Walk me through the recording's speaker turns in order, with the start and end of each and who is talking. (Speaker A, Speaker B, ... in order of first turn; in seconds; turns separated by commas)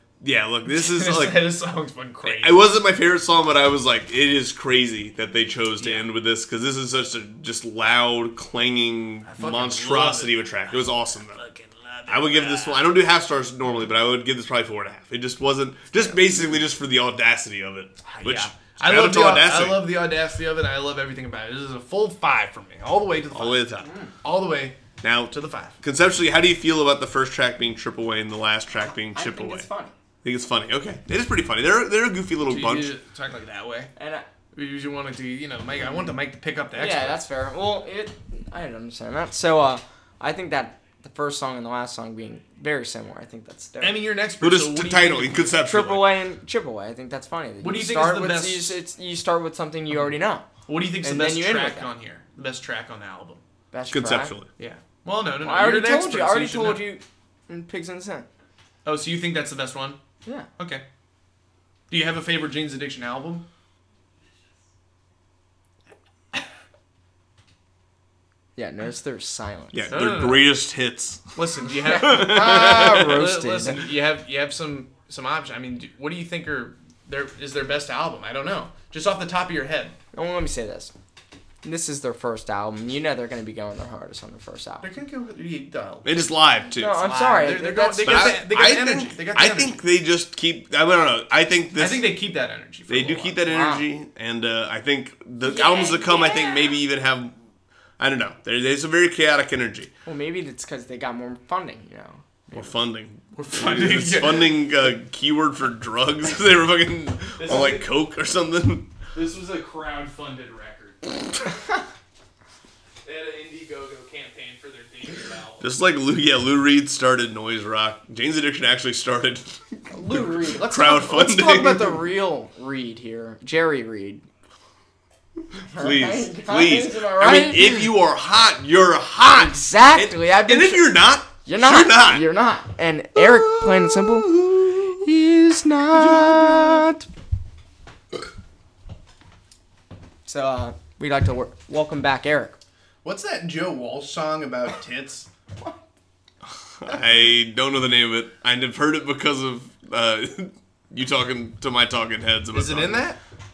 Speaker A: 0.2-1.5, Speaker B: 0.7-2.7, Speaker A: 2.2-11.4, Speaker B: 5.8-6.1, Speaker B: 9.2-10.8, Speaker B: 11.3-12.9, Speaker A: 12.1-20.0, Speaker B: 16.0-16.2, Speaker B: 18.1-25.8, Speaker A: 23.3-23.9, Speaker A: 25.0-29.7, Speaker C: 29.1-29.9, Speaker A: 30.2-33.0, Speaker B: 32.4-33.9, Speaker C: 34.0-34.3, Speaker B: 34.5-37.2, Speaker C: 36.7-44.1, Speaker B: 43.8-45.5, Speaker A: 44.4-46.1, Speaker C: 45.6-50.5, Speaker B: 47.6-48.8, Speaker B: 50.7-53.4, Speaker C: 51.0-51.9, Speaker C: 53.7-54.4, Speaker A: 53.9-54.5, Speaker B: 54.6-56.9, Speaker C: 55.4-58.3, Speaker B: 58.9-60.0, Speaker B: 60.6-60.8, Speaker B: 61.9-63.5, Speaker C: 68.6-70.0, Speaker A: 69.7-71.3, Speaker B: 69.9-70.5, Speaker B: 71.3-80.0, Speaker A: 71.9-73.1, Speaker C: 71.9-73.8, Speaker C: 80.1-80.9, Speaker C: 81.6-84.9, Speaker B: 84.8-86.2, Speaker A: 86.0-87.2, Speaker C: 86.8-88.4, Speaker B: 86.9-89.8, Speaker A: 88.0-92.1, Speaker B: 91.8-93.4, Speaker A: 92.9-97.3, Speaker C: 93.4-93.8, Speaker C: 95.4-96.8, Speaker A: 98.0-99.9, Speaker C: 100.1-102.7, Speaker A: 102.5-108.9, Speaker B: 103.3-104.6, Speaker B: 107.4-107.9, Speaker B: 109.1-111.2, Speaker B: 113.0-115.7, Speaker A: 115.6-122.0, Speaker C: 119.9-124.2, Speaker C: 125.7-127.9, Speaker A: 125.7-132.3, Speaker C: 129.3-137.1, Speaker A: 133.2-134.8, Speaker A: 136.2-136.6, Speaker C: 140.2-142.6, Speaker B: 143.0-145.3, Speaker A: 146.8-153.1, Speaker B: 152.5-153.2